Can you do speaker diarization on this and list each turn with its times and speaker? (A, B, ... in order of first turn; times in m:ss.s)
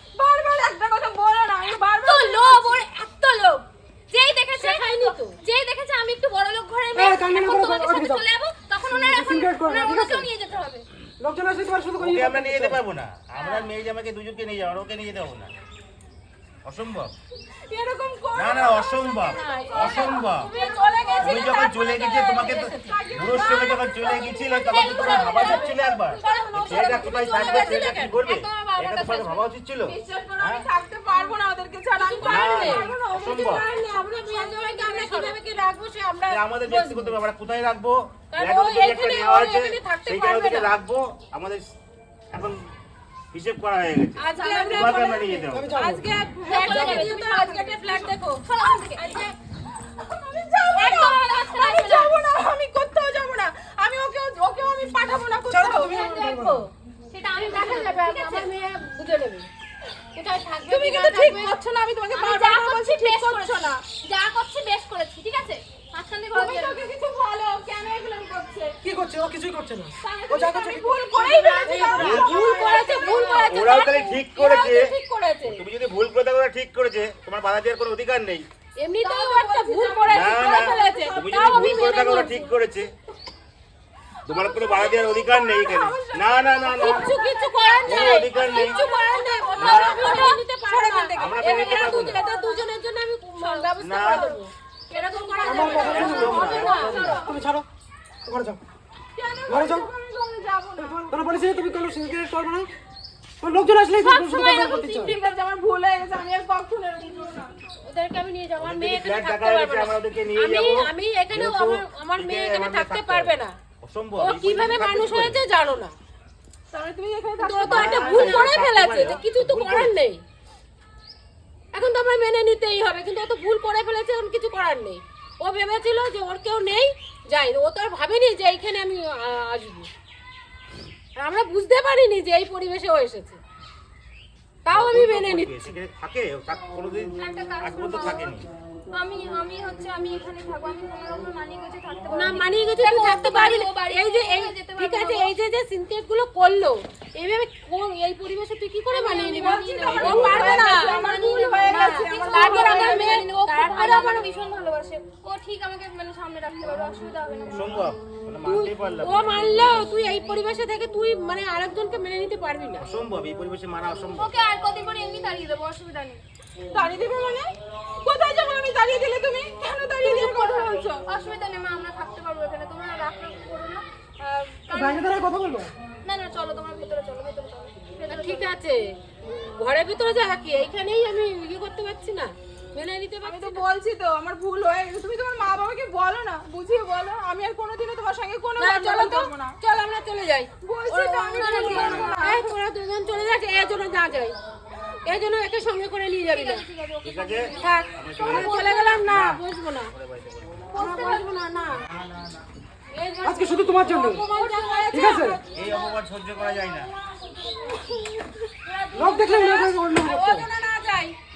0:00.2-0:02.8 A
0:02.0-0:10.8 B
0:04.5-0:05.4 C
0:06.9-0:08.3 D
0:08.8-0:10.3 D
0:11.2-0:12.8 D
0:12.0-0:15.5 E
0:16.6-0:17.1 E
0:17.6-0:21.5 A
0:18.3-0:20.5 E
0:19.2-0:23.6 C
0:21.2-0:30.6 E
0:22.4-0:25.8 A
0:24.7-0:28.2 C
0:24.7-0:29.4 B
0:29.8-0:34.4 A
0:32.0-0:37.2 C
0:32.2-0:33.6 E
0:34.4-0:35.4 B
0:36.3-0:41.6 E
0:38.3-0:40.8 C
0:42.3-0:42.7 E
0:43.3-0:45.7 E
0:44.2-0:49.3 C
0:44.4-0:45.2 A
0:45.5-0:47.1 D
0:46.4-0:47.4 A
0:46.7-0:49.2 B
0:50.0-0:56.0 A
0:50.8-0:52.2 B
0:55.5-0:56.6 D
0:55.9-0:56.7 C
0:57.1-0:58.5 B
0:57.4-0:59.5 C
1:00.1-1:01.6 C
1:00.7-1:03.8 A
1:02.1-1:06.8 B
1:06.3-1:08.7 A
1:08.8-1:11.0 D
1:10.0-1:13.9 A
1:11.1-1:11.9 B
1:11.6-1:15.6 C
1:11.9-1:12.5 E
1:12.5-1:13.4 B
1:13.4-1:14.9 E
1:15.4-1:18.4 E
1:18.8-1:22.5 C
1:19.0-1:21.2 A
1:20.1-1:22.9 E
1:24.2-1:27.1 E
1:24.3-1:32.6 A
1:26.7-1:37.2 C
1:27.7-1:30.1 B
1:27.8-1:28.8 E
1:29.6-1:30.2 E
1:31.1-1:32.2 E
1:33.4-1:33.6 B
1:33.8-1:34.3 E
1:34.1-1:34.4 A
1:34.9-1:36.5 A
1:35.4-1:37.6 D
1:35.9-1:37.2 E
1:36.4-1:37.3 B
1:38.3-1:38.6 D
1:39.1-1:41.2 A
1:39.5-1:39.9 D
1:40.8-1:42.7 D
1:43.4-1:45.2 D
1:43.9-1:47.5 A
1:47.8-1:53.6 C
1:48.6-1:55.4 E
1:54.2-1:55.9 C
1:56.7-1:58.6 A
1:57.4-2:00.2 C
1:57.6-1:59.9 E
2:01.7-2:09.9 C
2:11.2-2:13.4 C
2:14.6-2:15.7 C
2:14.7-2:18.4 E
2:17.1-2:18.3 B
2:18.9-2:25.3 B
2:22.1-2:34.3 C
2:28.9-2:37.9 B
2:29.3-2:33.1 A
2:29.9-2:30.6 E
2:37.5-2:39.5 E
2:38.4-2:42.8 C
2:42.8-2:44.3 E
2:44.2-2:46.2 B
2:46.7-2:51.0 A
2:50.0-2:55.2 B
2:54.7-2:55.7 D
2:56.0-2:58.5 B
2:58.0-3:03.6 C
3:03.2-3:09.6 A
3:08.6-3:14.4 C
3:10.6-3:12.5 A
3:11.7-3:12.2 E
3:15.0-3:16.6 C
3:16.3-3:17.7 B
3:17.0-3:19.4 E
3:17.6-3:19.9 C
3:18.2-3:19.0 A
3:20.0-3:20.6 E
3:20.7-3:21.2 B
3:20.7-3:21.8 C
3:20.8-3:21.3 A
3:21.8-3:22.5 E
3:22.9-3:25.4 C
3:23.2-3:24.2 D
3:24.1-3:25.4 A
3:24.4-3:25.9 B
3:24.9-3:25.4 D
3:25.5-3:26.9 E
3:26.8-3:27.5 B
3:27.5-3:27.8 C
3:28.6-3:31.2 C
3:28.9-3:30.5 D